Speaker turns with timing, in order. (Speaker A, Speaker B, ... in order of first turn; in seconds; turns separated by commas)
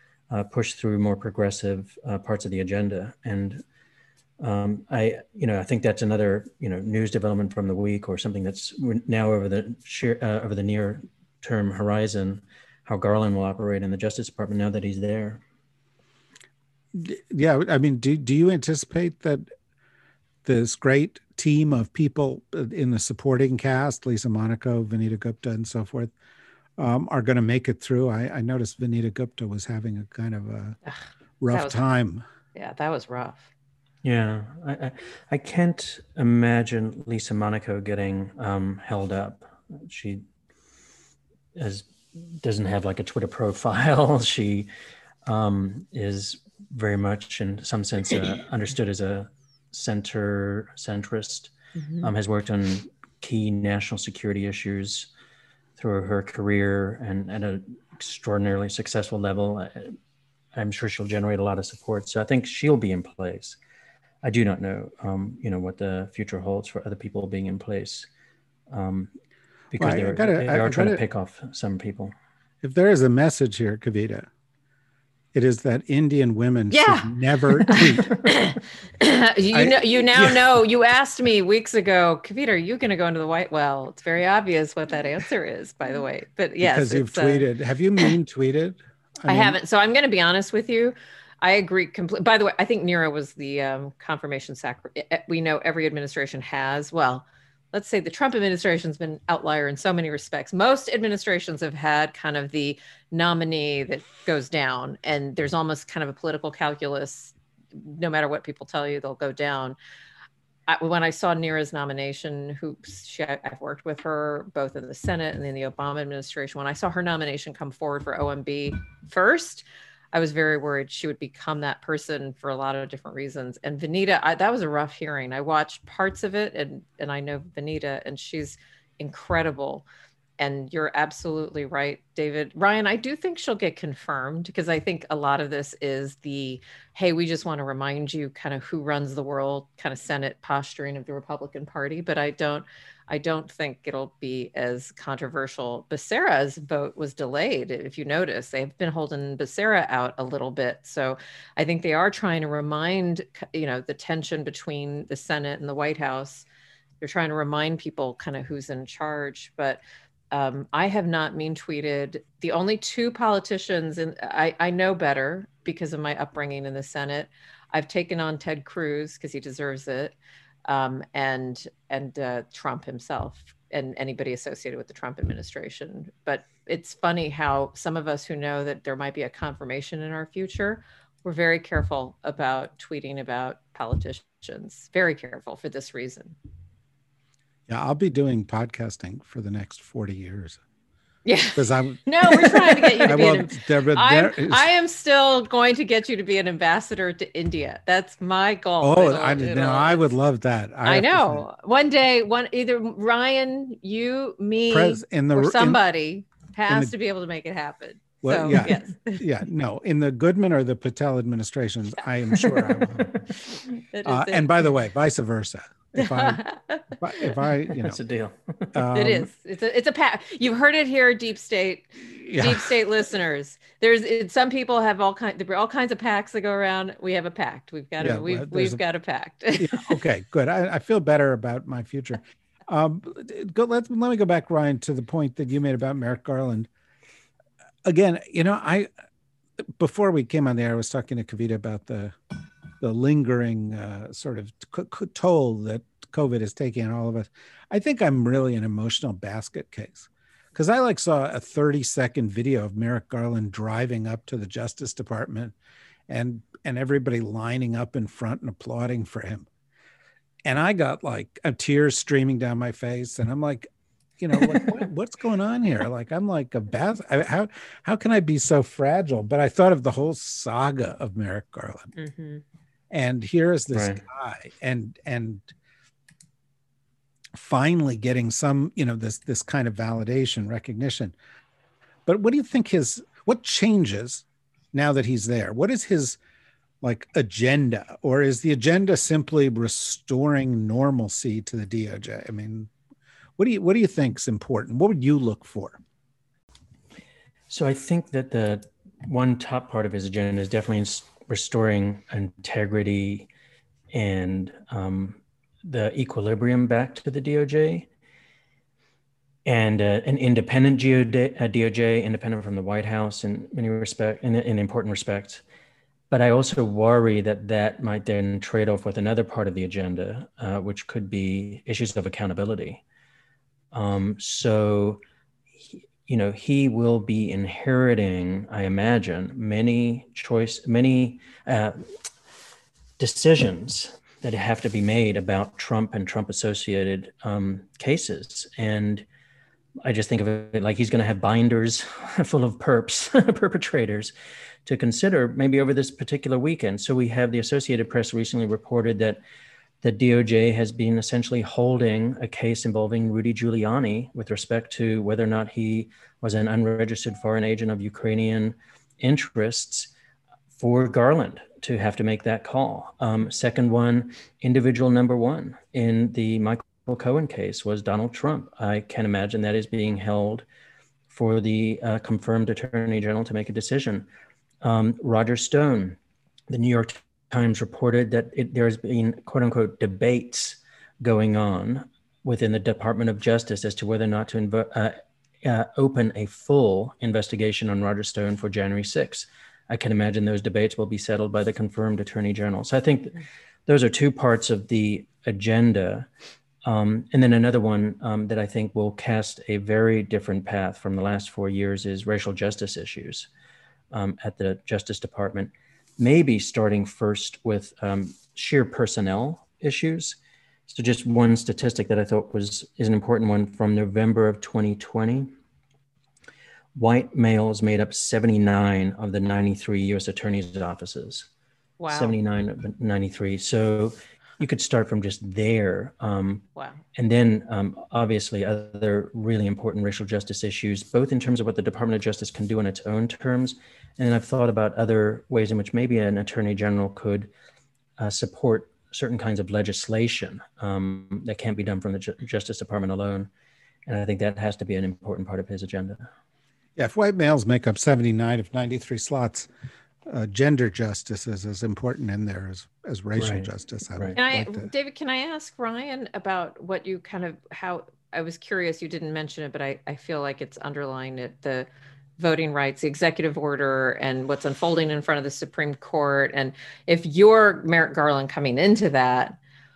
Speaker A: 0.3-3.6, Speaker A: 4.4-15.4, Speaker B: 16.9-19.4, Speaker B: 20.4-26.1, Speaker B: 26.8-30.8, Speaker B: 31.4-32.2, Speaker C: 31.5-31.8, Speaker C: 32.5-33.5, Speaker A: 34.0-40.2, Speaker A: 41.5-44.7, Speaker A: 45.3-55.1, Speaker C: 51.8-52.1, Speaker A: 55.8-60.0, Speaker A: 60.5-63.6, Speaker A: 64.2-68.1, Speaker A: 68.7-69.1, Speaker A: 69.7-72.1, Speaker B: 69.8-71.0, Speaker B: 72.6-74.3, Speaker B: 75.3-78.1, Speaker C: 76.7-77.1, Speaker C: 77.6-87.5, Speaker B: 79.5-80.5, Speaker B: 86.6-89.6, Speaker C: 89.3-109.8, Speaker C: 110.7-129.9, Speaker C: 130.4-156.5, Speaker C: 157.0-159.8, Speaker C: 160.3-170.2, Speaker C: 170.7-186.4, Speaker B: 187.7-190.6, Speaker C: 191.2-200.1, Speaker B: 191.6-194.7, Speaker B: 198.8-201.4, Speaker C: 200.8-209.2, Speaker B: 204.7-205.8, Speaker B: 206.7-206.9, Speaker B: 208.2-213.1, Speaker C: 213.7-214.7, Speaker B: 214.1-218.0, Speaker C: 216.0-217.0, Speaker A: 217.7-218.8, Speaker B: 218.7-219.3, Speaker C: 218.9-230.0, Speaker B: 222.2-222.7, Speaker B: 228.0-228.8, Speaker B: 229.6-236.7, Speaker B: 237.8-238.9, Speaker B: 239.8-242.2, Speaker B: 242.8-255.6, Speaker B: 256.1-259.5, Speaker B: 260.4-271.9, Speaker C: 272.0-272.4, Speaker B: 272.9-275.5, Speaker A: 273.7-274.0, Speaker B: 277.3-281.2, Speaker B: 282.1-286.2, Speaker B: 286.8-292.7, Speaker B: 293.4-295.8, Speaker A: 297.5-303.3, Speaker A: 303.9-307.9, Speaker A: 309.4-315.4, Speaker A: 316.1-322.8, Speaker A: 323.7-325.0, Speaker A: 325.6-331.9, Speaker A: 333.0-339.1, Speaker A: 339.8-344.1, Speaker A: 344.7-349.2, Speaker A: 349.8-359.9, Speaker A: 360.6-370.4, Speaker A: 371.1-374.1, Speaker A: 374.6-376.0, Speaker A: 376.5-396.1, Speaker A: 396.6-403.3, Speaker A: 403.9-410.2, Speaker A: 410.7-415.3, Speaker A: 416.8-421.3, Speaker C: 421.8-422.2, Speaker A: 421.9-437.3, Speaker C: 426.6-426.8, Speaker A: 438.0-443.3, Speaker A: 443.9-446.1, Speaker B: 446.8-449.5, Speaker B: 450.1-454.7, Speaker A: 453.2-454.2, Speaker C: 454.2-461.7, Speaker C: 462.2-469.4